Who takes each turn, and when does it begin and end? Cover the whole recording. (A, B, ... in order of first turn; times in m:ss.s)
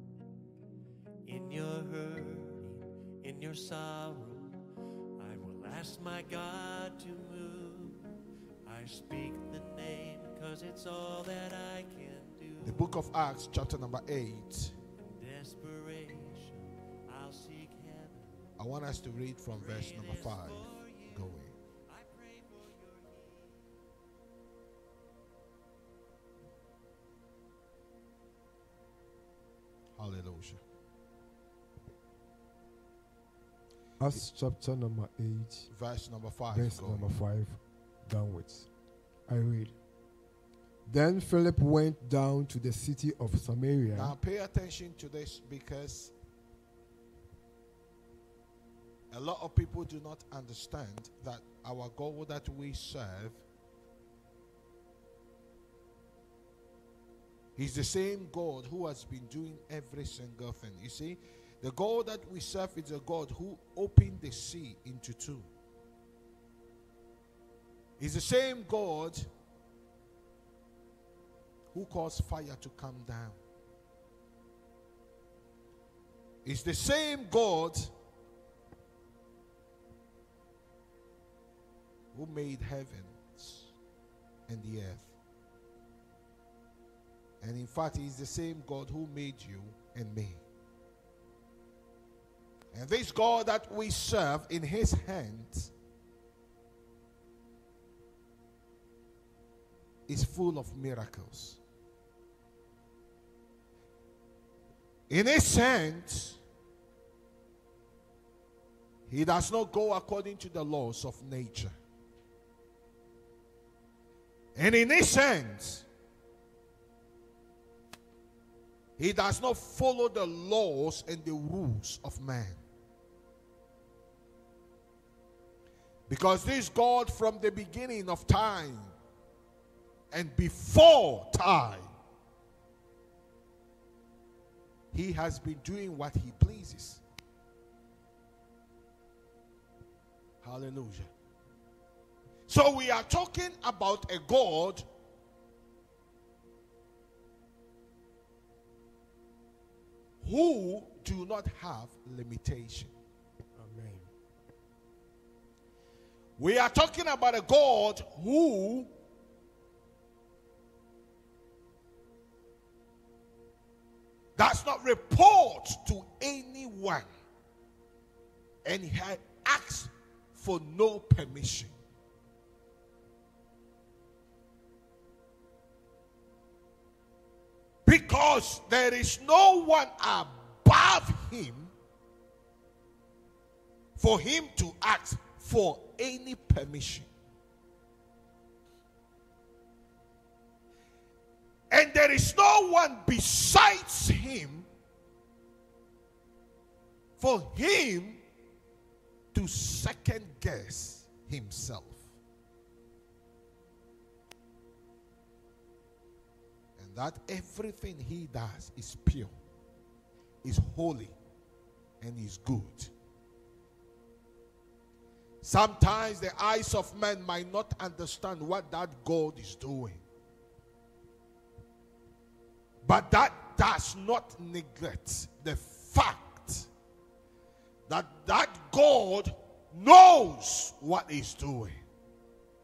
0:01.2-0:04.6 A
0:05.2-0:08.0 A
0:08.6-0:12.9 A
0:12.6-0:14.7 B
0:15.2-0:18.4 A
0:18.6-0:21.5 B
0:19.6-0:23.8 A
0:30.0-0:30.6 B
0:34.0-0:35.7 C
0:35.7-0:37.0 B
0:36.5-0:38.7 C
0:39.3-0:39.7 C
0:40.8-0:44.2 C
0:43.9-0:46.1 B
0:49.1-0:53.4 B
0:57.6-1:05.5 B
1:08.0-1:09.3 B
1:11.7-1:13.4 B
1:16.4-1:17.9 B
1:22.1-1:23.7 B
1:24.5-1:25.1 B
1:27.4-1:30.4 B
1:32.7-1:35.7 B
1:40.1-1:41.6 B
1:45.1-1:46.4 B
1:49.1-1:51.7 B
1:54.6-1:55.8 B
1:59.0-2:02.6 B
2:06.1-2:08.9 B
2:10.1-2:11.9 B
2:14.9-2:17.0 B
2:20.4-2:21.1 B
2:22.5-2:24.8 B
2:30.2-2:32.9 B
2:33.6-2:34.1 C
2:36.4-2:38.9 B
2:44.4-2:47.0 B
2:48.6-2:51.7 B
2:57.8-3:01.7 B
3:04.0-3:07.1 B
3:11.7-3:14.7 B
3:17.2-3:18.2 B
3:19.3-3:22.0 B
3:26.8-3:29.3 B
3:30.4-3:31.1 B
3:32.0-3:32.9 B
3:35.4-3:40.0 B
3:42.8-3:46.7 B
3:47.9-3:51.8 B